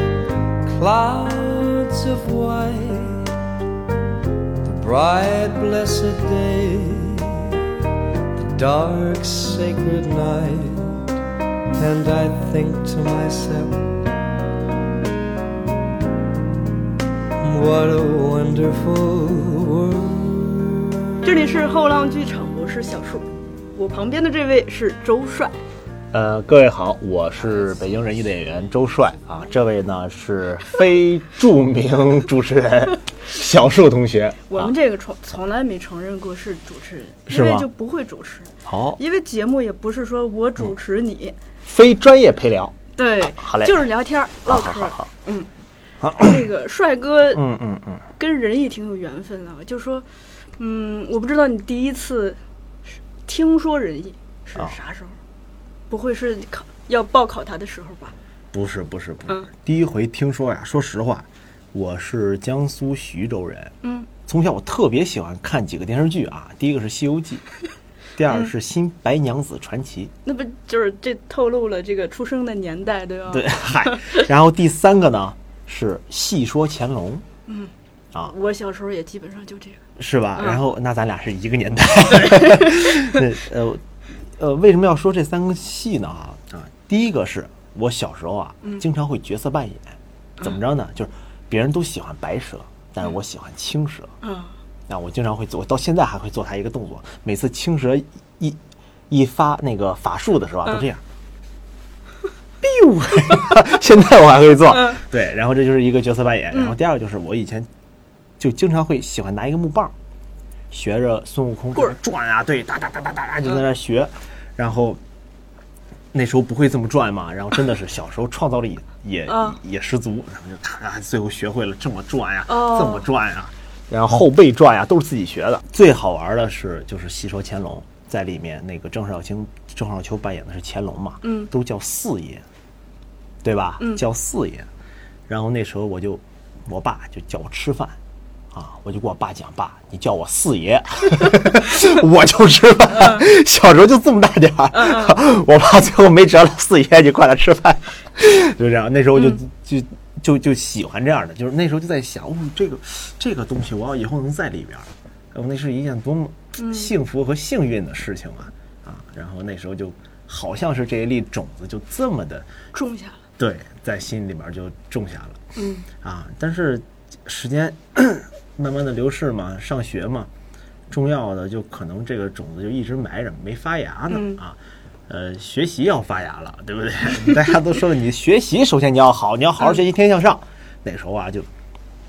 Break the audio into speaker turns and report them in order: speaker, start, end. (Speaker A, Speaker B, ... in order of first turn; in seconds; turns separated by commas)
Speaker A: 0.7-3.2, Speaker A: 4.6-7.6, Speaker A: 8.3-11.0, Speaker A: 11.7-13.9, Speaker A: 17.4-20.6, Speaker B: 21.2-25.6, Speaker C: 26.1-34.7, Speaker B: 34.5-41.4, Speaker C: 37.3-37.7, Speaker C: 38.6-39.0, Speaker C: 41.6-42.8, Speaker B: 43.0-45.5, Speaker C: 43.3-43.8, Speaker C: 44.5-45.1, Speaker C: 46.0-46.4, Speaker B: 46.2-47.4, Speaker C: 47.3-48.0, Speaker B: 48.2-52.4, Speaker B: 52.9-55.2, Speaker B: 55.9-58.1, Speaker C: 58.5-63.7, Speaker B: 63.8-64.1, Speaker C: 64.2-67.5, Speaker C: 68.2-70.1, Speaker B: 70.2-74.3, Speaker C: 73.3-77.2, Speaker B: 77.5-79.8, Speaker C: 80.0-94.1, Speaker B: 94.2-94.5, Speaker C: 94.9-98.6, Speaker C: 99.1-101.0, Speaker C: 102.6-107.7, Speaker C: 108.4-109.9, Speaker C: 110.7-115.0, Speaker C: 116.1-132.4, Speaker B: 119.3-119.6, Speaker B: 122.5-123.1, Speaker B: 131.2-131.5, Speaker C: 133.4-134.7, Speaker C: 135.3-138.0, Speaker C: 138.5-162.5, Speaker B: 144.7-145.2, Speaker B: 149.1-149.4, Speaker B: 156.6-156.9, Speaker B: 162.7-163.2, Speaker C: 163.4-165.4, Speaker B: 165.5-165.9, Speaker C: 166.0-170.3, Speaker C: 170.9-181.5, Speaker B: 174.1-174.4